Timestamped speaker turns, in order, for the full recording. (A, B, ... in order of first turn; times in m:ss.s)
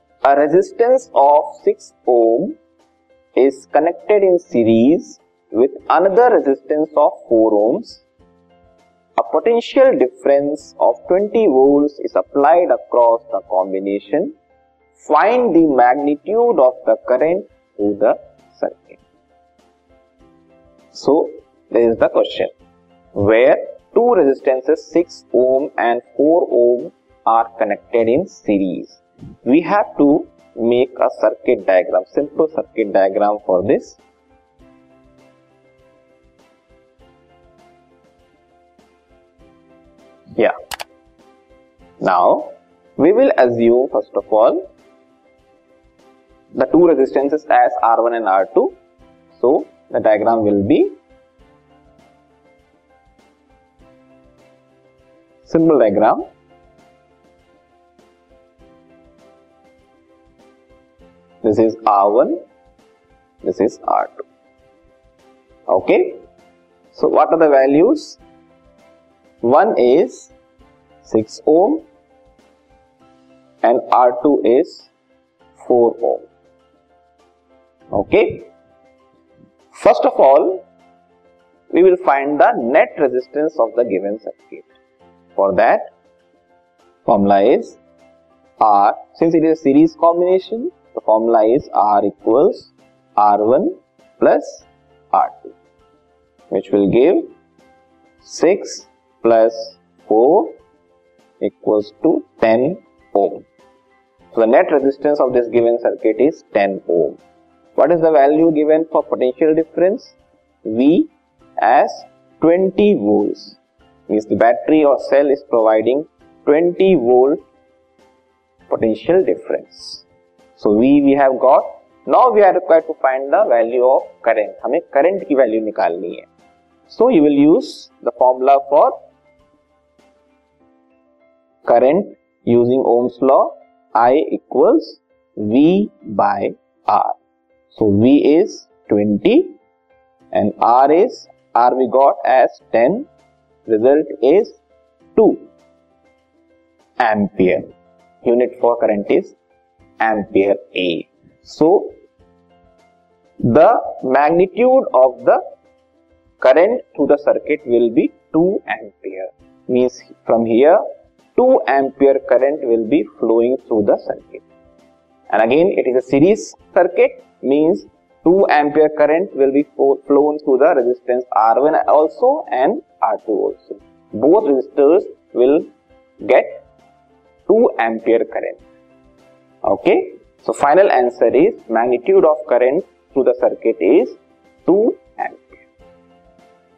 0:00.2-0:02.6 A
0:03.4-0:08.0 A
0:09.2-0:14.4 A
0:15.0-0:19.0 A
0:20.9-0:22.5 A
0:23.1-0:34.0 A
0:42.0-0:44.7 A
0:46.5-0:48.8 A
0:49.3-0:51.0 A
0:55.4-0:56.2 A
1:01.4-1:02.4 A
1:03.4-1:04.2 A
1:05.7-1:06.2 A
1:06.9-1:08.2 A
1:09.4-1:10.3 A
1:11.0-1:11.8 A
1:13.6-1:14.9 A
1:15.6-1:16.3 A
1:17.9-1:18.5 A
1:19.7-1:20.6 A
1:21.7-1:24.7 A
1:25.4-1:25.9 A
1:27.0-1:27.8 A
1:28.6-1:35.5 A
1:36.5-1:37.3 A
1:38.2-1:40.6 A
1:41.4-1:43.4 A
1:44.3-1:47.2 A
1:47.8-1:57.4 A
1:58.7-2:00.0 A
2:00.6-2:06.3 A
2:06.9-2:09.0 A
2:11.6-2:17.2 A
2:17.7-2:19.6 A
2:20.3-2:23.1 A
2:23.7-2:24.6 A
2:25.2-2:25.5 A
2:27.0-2:27.7 A
2:28.2-2:29.4 A
2:30.0-2:32.0 A
2:33.4-2:35.4 A
2:36.4-2:40.8 A
2:41.4-2:44.4 A
2:45.3-2:55.7 A
2:56.2-2:56.6 A
2:57.5-2:58.6 A
2:59.6-3:05.6 A